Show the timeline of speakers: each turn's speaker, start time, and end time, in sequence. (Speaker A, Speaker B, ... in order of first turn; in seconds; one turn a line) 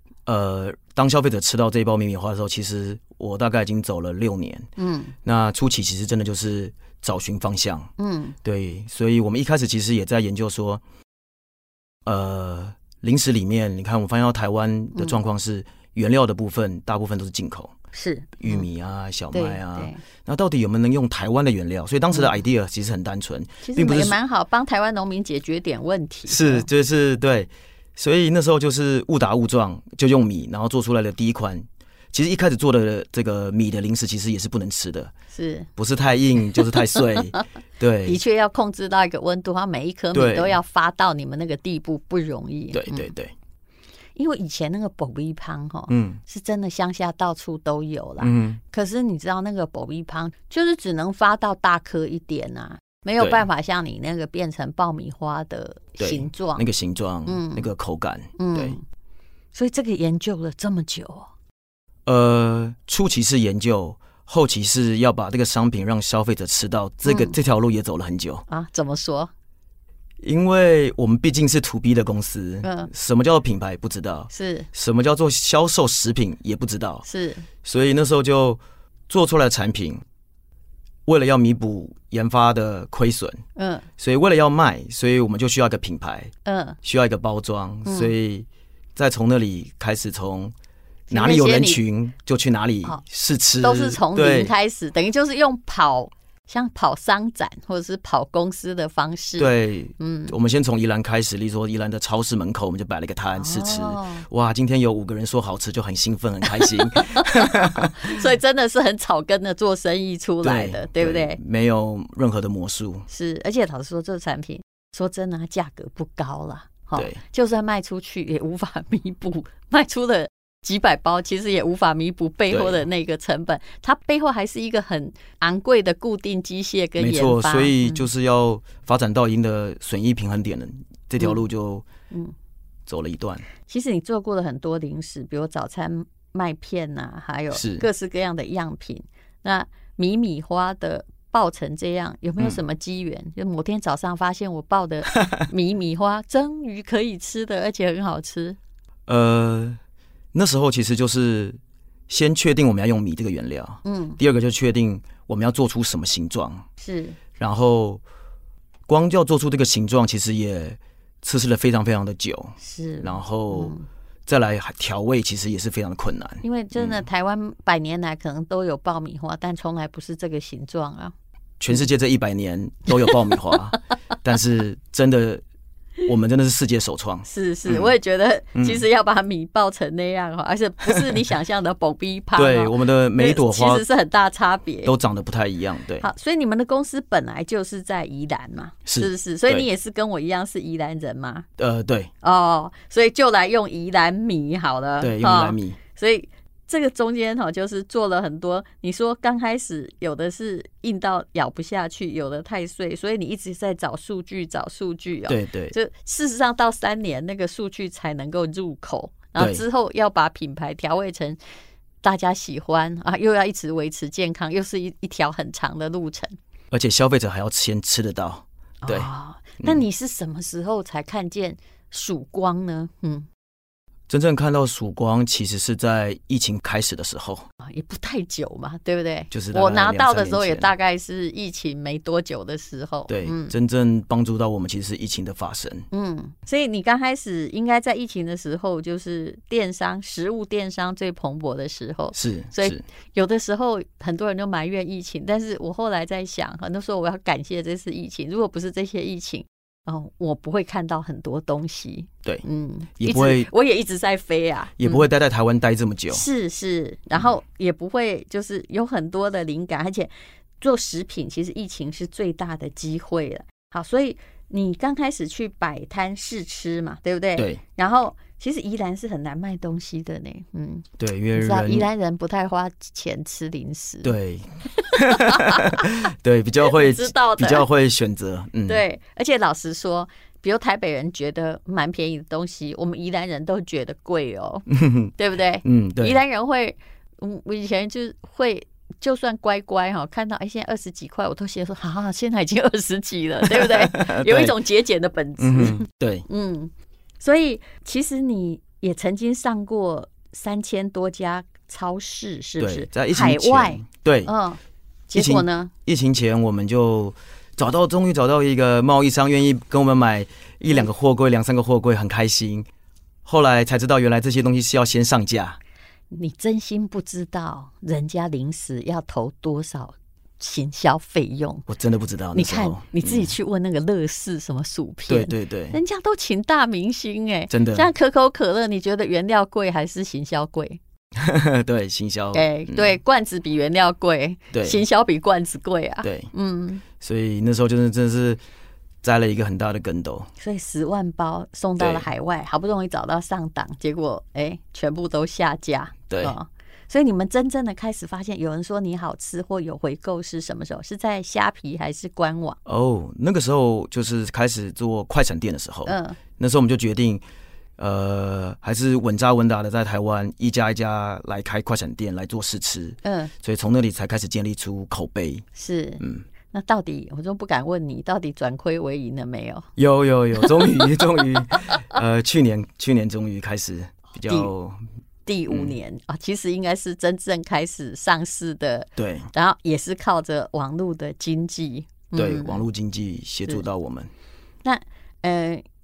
Speaker A: 0.2-4.7
Speaker B: 4.8-5.1
Speaker A: 5.2-7.9
Speaker B: 8.0-8.3
Speaker A: 8.4-10.8
Speaker A: 12.1-17.7
Speaker B: 17.9-18.7
Speaker A: 18.4-24.2
Speaker B: 19.3-20.0
Speaker B: 22.1-22.4
Speaker B: 23.6-26.7
Speaker A: 26.3-35.1
Speaker B: 35.3-35.7
Speaker A: 35.8-38.2
Speaker B: 36.6-37.4
Speaker B: 38.0-43.1
Speaker A: 40.1-40.6
Speaker A: 42.7-43.3
Speaker B: 44.1-56.6
Speaker A: 45.9-46.2
Speaker A: 48.2-48.6
Speaker A: 53.2-53.5
Speaker A: 56.0-58.8
Speaker B: 57.2-57.7
Speaker B: 58.4-58.8
Speaker B: 59.5-61.3
Speaker A: 62.1-68.4
Speaker B: 67.0-67.4
Speaker B: 68.5-69.3
Speaker A: 70.2-77.0
Speaker B: 72.6-72.9
Speaker B: 74.3-74.7
Speaker B: 77.0-77.5
Speaker A: 77.6-80.0
Speaker A: 81.1-83.4
Speaker B: 83.5-83.9
Speaker A: 84.0-86.3
Speaker B: 86.4-86.8
Speaker A: 86.8-90.5
Speaker B: 87.8-88.1
Speaker A: 91.1-94.5
Speaker B: 91.1-91.8
Speaker B: 93.6-100.3
Speaker A: 99.4-107.9
Speaker B: 103.4-104.3
Speaker B: 106.6-111.4
Speaker A: 110.4-113.1
Speaker B: 113.1-128.1
Speaker A: 116.9-117.2
Speaker A: 122.5-122.8
Speaker A: 127.0-131.8
Speaker A: 132.9-133.4
Speaker B: 133.7-148.6
Speaker A: 137.5-137.9
Speaker A: 149.1-149.8
Speaker A: 150.3-156.6
Speaker B: 153.8-154.2
Speaker B: 156.8-157.2
Speaker A: 157.4-158.0
Speaker A: 158.9-163.7
Speaker B: 162.6-163.8
Speaker A: 164.2-167.1
Speaker B: 166.4-171.1
Speaker A: 171.6-175.4
Speaker A: 176.0-177.9
Speaker B: 177.2-184.9
Speaker A: 178.5-178.8
Speaker A: 180.8-181.2
Speaker A: 182.3-183.8
Speaker A: 184.8-186.1
Speaker B: 186.0-191.4
Speaker A: 188.8-189.7
Speaker A: 191.6-192.1
Speaker B: 192.2-211.4
Speaker A: 195.0-195.8
Speaker A: 205.2-205.7
Speaker A: 209.3-209.6
Speaker B: 212.0-216.3
Speaker A: 216.7-219.1
Speaker B: 218.8-223.3
Speaker A: 224.1-227.4
Speaker B: 227.6-233.5
Speaker A: 229.3-230.7
Speaker A: 233.1-235.9
Speaker B: 235.9-255.1
Speaker A: 242.1-242.8
Speaker A: 253.0-253.5
Speaker A: 254.8-256.2
Speaker B: 256.1-274.1
Speaker A: 267.4-267.6
Speaker A: 271.0-271.9
Speaker A: 274.0-278.8
Speaker B: 274.8-276.0
Speaker B: 276.6-277.6
Speaker B: 278.7-305.7
Speaker A: 284.7-285.1
Speaker A: 285.6-286.2
Speaker A: 293.4-294.6
Speaker A: 295.4-296.3
Speaker A: 302.6-304.3
Speaker A: 305.1-312.7
Speaker A: 313.2-315.6
Speaker B: 316.1-321.7
Speaker A: 321.7-323.3
Speaker B: 322.3-330.8
Speaker A: 325.1-325.8
Speaker A: 327.5-327.9
Speaker A: 331.2-333.0
Speaker B: 332.3-336.8
Speaker A: 334.5-334.8
Speaker A: 336.0-336.3
Speaker A: 337.0-338.4
Speaker A: 339.0-340.3
Speaker B: 340.4-352.6
Speaker A: 341.8-342.1
Speaker A: 346.1-346.3
Speaker A: 352.6-357.2
Speaker B: 355.9-356.2
Speaker A: 357.8-365.4
Speaker B: 363.0-363.3
Speaker B: 365.6-369.7
Speaker A: 369.8-374.8
Speaker B: 370.4-371.9
Speaker B: 374.2-374.5
Speaker B: 375.2-382.6
Speaker A: 375.5-375.7
Speaker A: 379.0-379.3
Speaker A: 382.1-384.1
Speaker B: 384.6-385.6